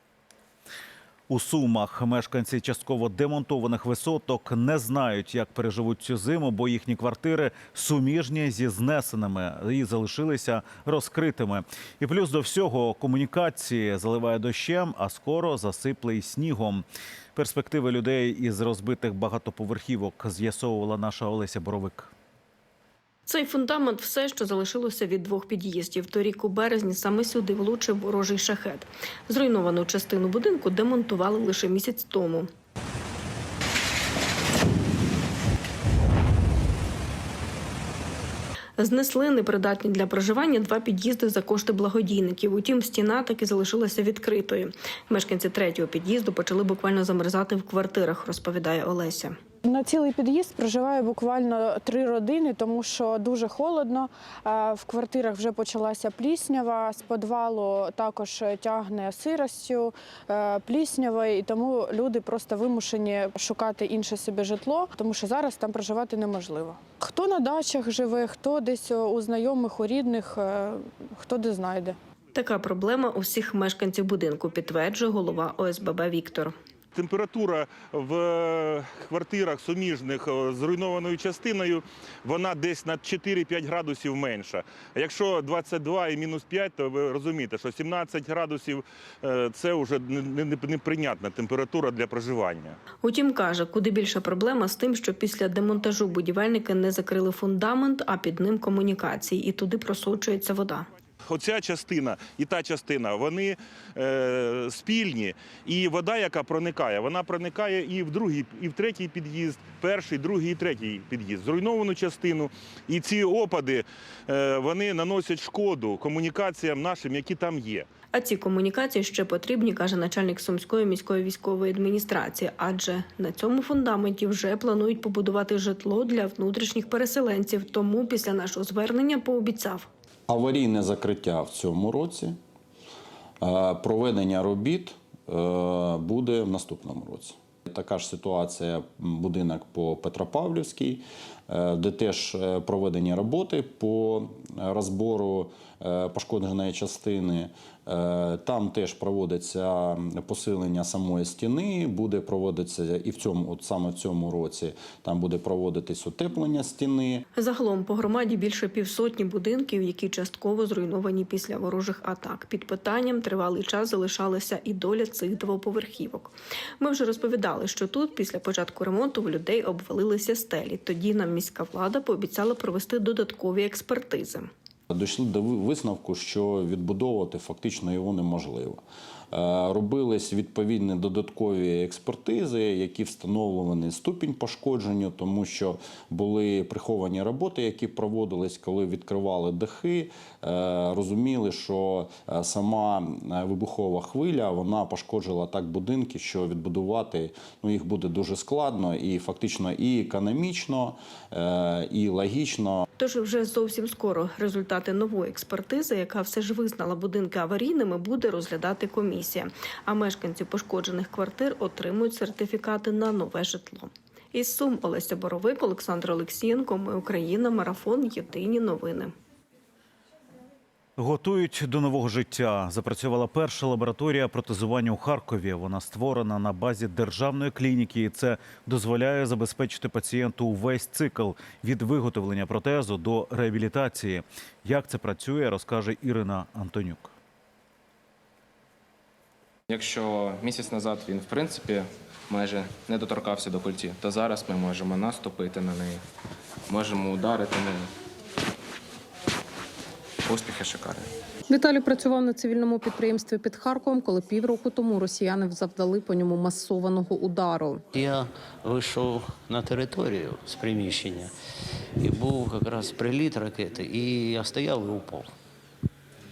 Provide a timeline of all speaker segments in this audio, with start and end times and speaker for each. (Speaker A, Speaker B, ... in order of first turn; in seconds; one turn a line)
Speaker A: 1.3-16.8
Speaker A: 17.3-22.1
Speaker B: 23.3-32.5
Speaker B: 38.8-49.4
Speaker C: 49.6-72.0
Speaker B: 72.3-76.5
Speaker D: 76.9-92.8
Speaker B: 93.0-100.9
Speaker D: 101.3-117.9
Speaker B: 118.1-129.9
Speaker E: 130.3-132.4
Speaker E: 133.4-157.2
Speaker B: 157.3-174.5
Speaker E: 174.9-202.8
Speaker B: 203.0-219.1
Speaker A: 221.0-237.1
Speaker F: 239.7-246.0
Speaker F: 246.7-247.9
Speaker F: 250.2-251.1
Speaker G: 251.5-257.8
Speaker H: 257.9-261.3
Speaker H: 262.0-265.3